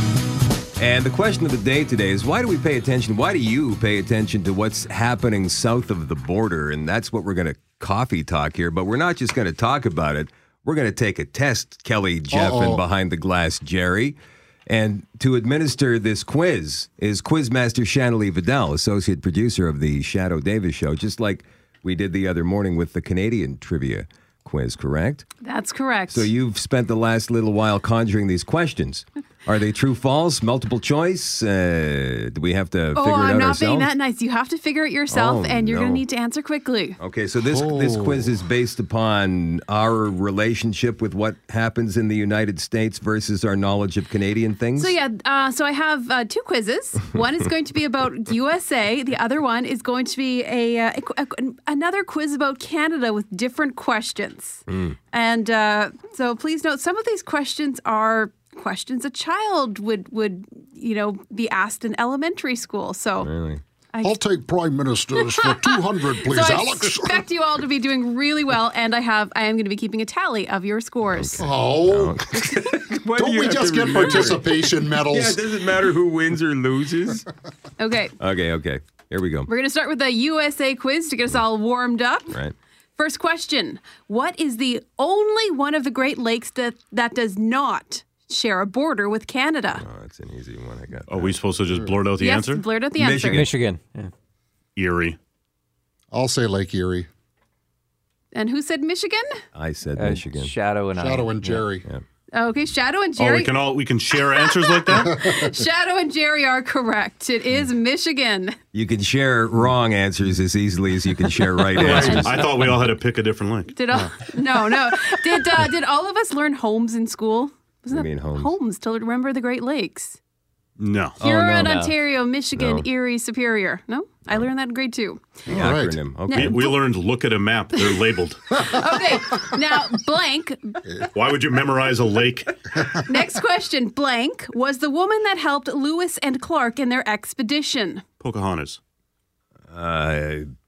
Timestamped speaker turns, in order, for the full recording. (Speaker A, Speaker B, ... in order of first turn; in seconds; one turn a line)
Speaker A: 0.8-14.2
Speaker B: 12.3-12.8
Speaker A: 14.7-25.3
Speaker C: 25.4-26.3
Speaker A: 26.1-33.9
Speaker C: 33.0-37.0
Speaker A: 35.1-36.0
Speaker A: 37.0-45.0
Speaker B: 37.5-38.4
Speaker C: 44.8-63.3
Speaker A: 54.7-55.0
Speaker A: 63.2-63.6
Speaker B: 64.0-67.2
Speaker C: 65.2-71.5
Speaker A: 71.1-77.3
Speaker B: 71.4-72.4
Speaker B: 73.2-75.4
Speaker C: 74.0-74.3
Speaker C: 77.8-78.1
Speaker A: 78.2-79.5
Speaker C: 79.5-82.4
Speaker C: 83.0-89.8
Speaker A: 89.8-91.3
Speaker D: 91.1-92.7
Speaker C: 92.2-93.5
Speaker A: 93.0-93.5
Speaker E: 93.3-94.1
Speaker D: 94.8-95.2
Speaker B: 96.1-97.1
Speaker C: 98.3-99.2
Speaker A: 99.5-100.5
Speaker E: 100.0-101.7
Speaker B: 101.0-101.9
Speaker C: 102.3-103.5
Speaker D: 103.2-105.2
Speaker C: 104.4-108.6
Speaker B: 105.1-105.5
Speaker A: 108.7-112.5
Speaker D: 111.8-113.7
Speaker C: 112.0-112.5
Speaker C: 113.7-120.2
Speaker A: 117.9-118.5
Speaker D: 120.8-121.2
Speaker A: 121.2-121.8
Speaker C: 121.2-125.4
Speaker E: 121.6-122.0
Speaker A: 122.5-122.9
Speaker B: 125.5-126.0
Speaker A: 125.5-126.6
Speaker C: 126.3-126.8
Speaker D: 126.3-128.4
Speaker C: 128.5-130.8
Speaker D: 131.1-132.6
Speaker C: 133.0-138.0
Speaker D: 138.2-138.8
Speaker A: 139.7-140.5